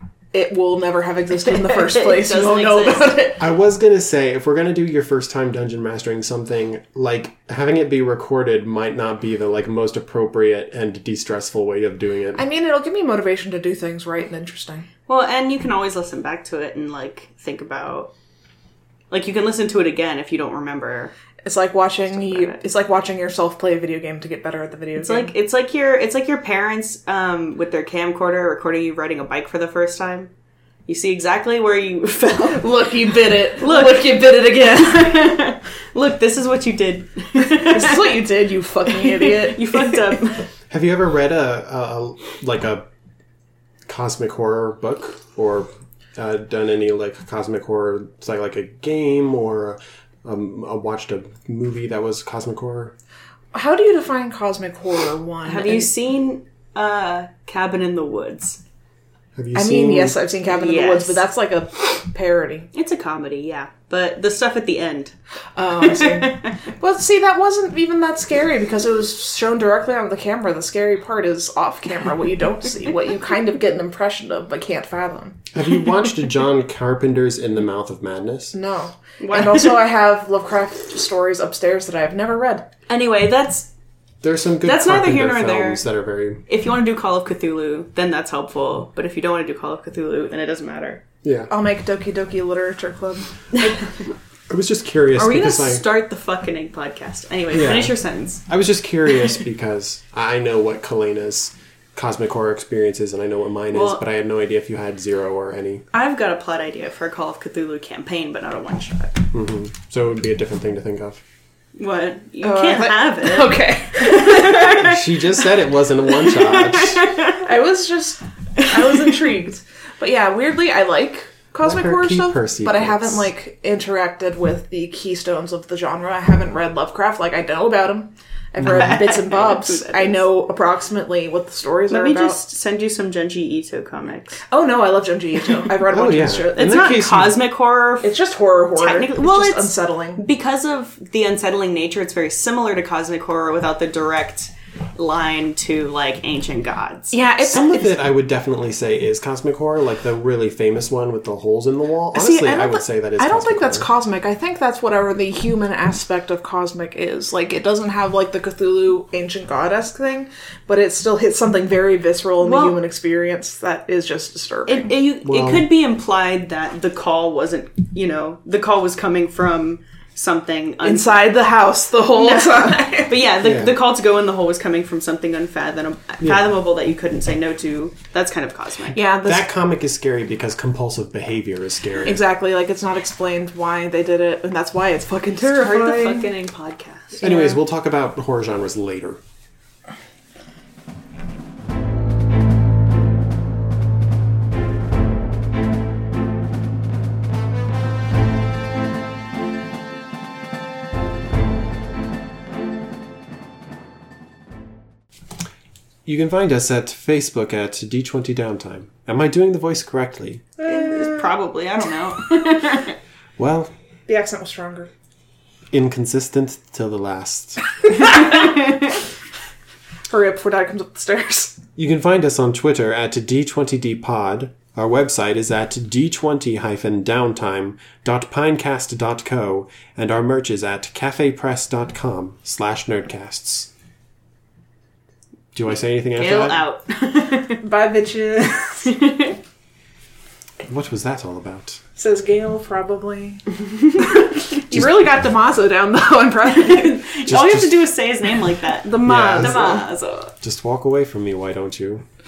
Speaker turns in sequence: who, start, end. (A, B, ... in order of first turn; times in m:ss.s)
0:00.3-0:03.4 A
0:01.5-0:03.3 B
0:03.4-0:12.4 C
0:12.4-0:14.9 A
0:15.1-0:18.1 B
0:19.1-0:21.1 B
0:21.4-0:25.3 A
0:22.2-0:22.6 B
0:25.0-0:30.3 B
0:30.9-0:32.7 B
0:32.5-0:35.4 A
0:33.4-0:40.4 B
0:37.4-0:40.2 A
0:40.7-0:42.9 C
0:43.9-0:52.9 C
0:53.5-0:55.9 A
0:55.4-0:58.6 B
0:59.4-1:00.2 C
0:59.6-1:02.7 A
1:00.5-1:01.2 B
1:02.7-1:05.1 B
1:05.6-1:15.4 A
1:05.9-1:06.5 B
1:15.5-1:18.6 C
1:18.5-1:22.7 A
1:19.2-1:19.9 B
1:22.9-1:23.7 B
1:24.2-1:26.4 C
1:24.6-1:25.9 B
1:26.5-1:31.0 B
1:31.2-1:31.5 C
1:31.5-1:33.7 A
1:34.5-1:35.8 C
1:35.2-1:38.4 B
1:37.5-1:45.8 C
1:43.7-1:44.0 B
1:45.9-1:49.3 B
1:49.3-1:51.2 C
1:51.8-1:54.9 B
1:52.4-1:55.0 A
1:54.7-1:57.0 C
1:56.1-1:57.4 B
1:57.4-2:12.4 A
1:58.6-1:59.3 B
2:01.6-2:03.3 C
2:08.6-2:10.2 B
2:11.9-2:14.4 B
2:14.5-2:17.0 A
2:15.9-2:17.5 C
2:16.6-2:18.2 B
2:18.0-2:20.2 A
2:18.8-2:27.3 B
2:27.1-2:28.0 A
2:27.4-2:33.9 C
2:32.1-2:44.9 A
2:42.4-2:42.8 B
2:44.7-2:51.3 B
2:45.2-2:45.7 C
2:50.8-2:53.2 A
2:52.1-2:59.0 B
2:53.4-2:53.8 C
2:58.9-2:59.5 A
2:59.2-3:02.2 C
3:02.0-3:06.3 A
3:05.4-3:07.3 B
3:07.2-3:09.2 C
3:07.2-3:07.6 A
3:26.0-3:30.5 C
3:30.6-3:31.3 A
3:30.6-3:33.0 B
3:33.4-3:33.7 C
3:34.1-3:34.9 A
3:35.7-3:37.6 C
3:38.0-3:38.3 A
3:40.1-3:41.6 A
3:41.8-3:53.7 C
3:55.5-3:56.6 C
3:56.2-3:57.6 B
3:57.6-3:58.9 A
3:58.9-3:59.4 B
4:00.6-4:01.8 C
4:02.0-4:07.2 A
4:06.6-4:10.3 B
4:07.3-4:07.9 C
4:08.8-4:09.9 A
4:09.0-4:09.6 C
4:10.4-4:12.0 C